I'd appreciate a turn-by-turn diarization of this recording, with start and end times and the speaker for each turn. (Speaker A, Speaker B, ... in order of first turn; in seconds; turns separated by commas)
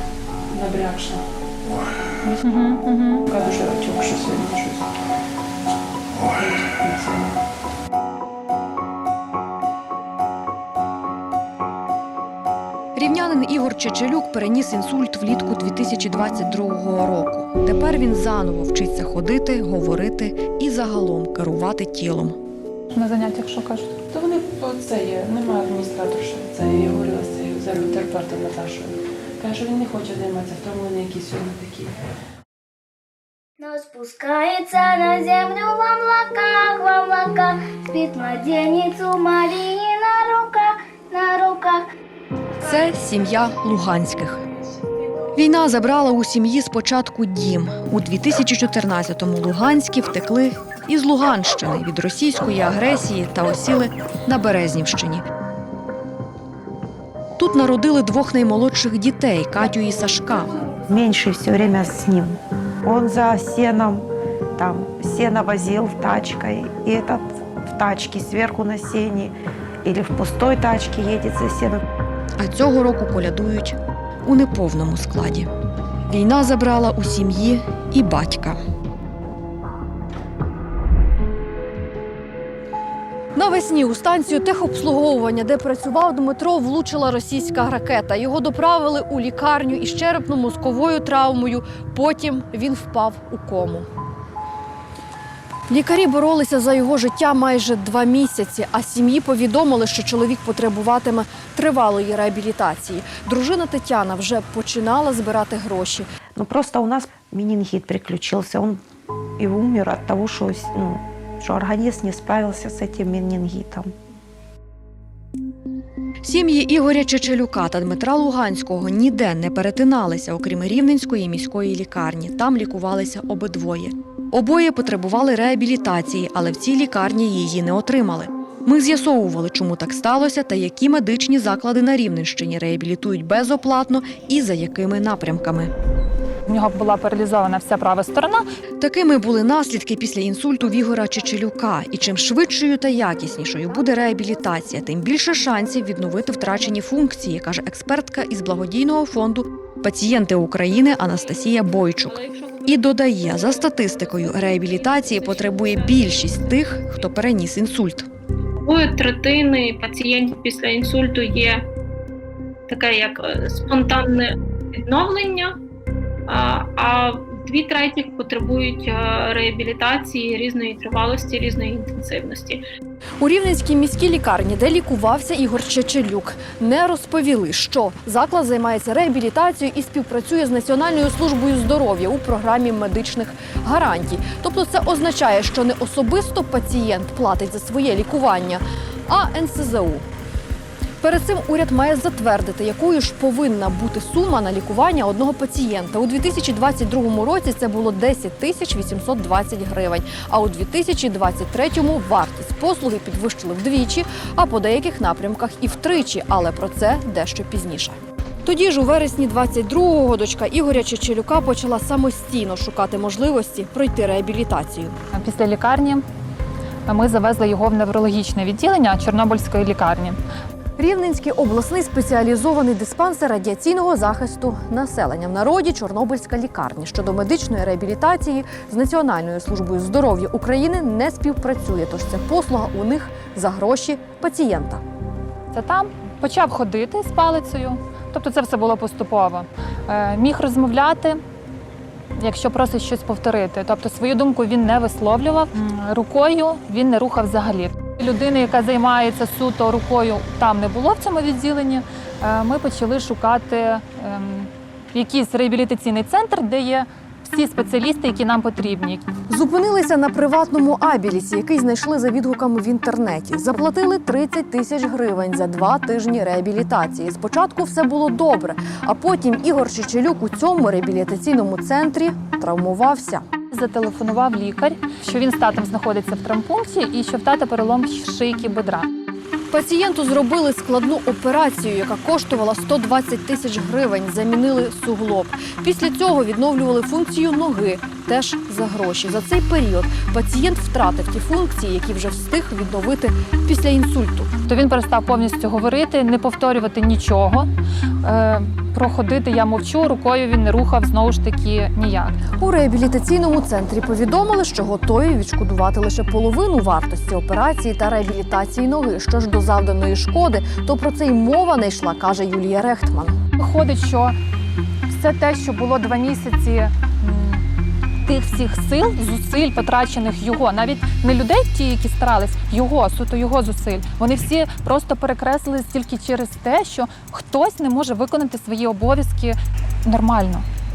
Speaker A: 0.5-1.2, Speaker B: 2.3-3.2, Speaker A: 3.3-4.8, Speaker A: 6.2-7.4, Speaker C: 12.9-22.4, Speaker B: 22.9-23.9, Speaker A: 24.1-31.9, Speaker D: 33.6-41.9, Speaker C: 42.6-44.4, Speaker C: 45.3-55.2, Speaker C: 57.4-60.5, Speaker E: 60.9-64.0, Speaker E: 64.6-71.8, Speaker C: 72.4-75.5, Speaker C: 76.1-78.6, Speaker C: 83.3-93.9, Speaker C: 95.7-106.1, Speaker E: 106.3-108.8, Speaker E: 109.4-113.9, Speaker C: 116.2-135.7, Speaker B: 136.4-138.4, Speaker C: 138.8-158.1, Speaker F: 152.1-157.0, Speaker F: 158.6-161.7, Speaker F: 162.7-165.6, Speaker F: 166.3-172.6, Speaker C: 173.2-190.0, Speaker C: 191.0-214.9, Speaker B: 215.1-216.0, Speaker B: 216.9-220.2, Speaker C: 220.8-234.8, Speaker B: 235.5-241.2, Speaker B: 242.2-259.1, Speaker C: 259.3-273.2, Speaker B: 273.5-278.9, Speaker C: 279.5-294.3, Speaker B: 294.4-297.5, Speaker B: 298.0-302.2, Speaker C: 302.4-313.2, Speaker B: 313.4-314.1, Speaker B: 314.9-317.4, Speaker B: 318.0-330.4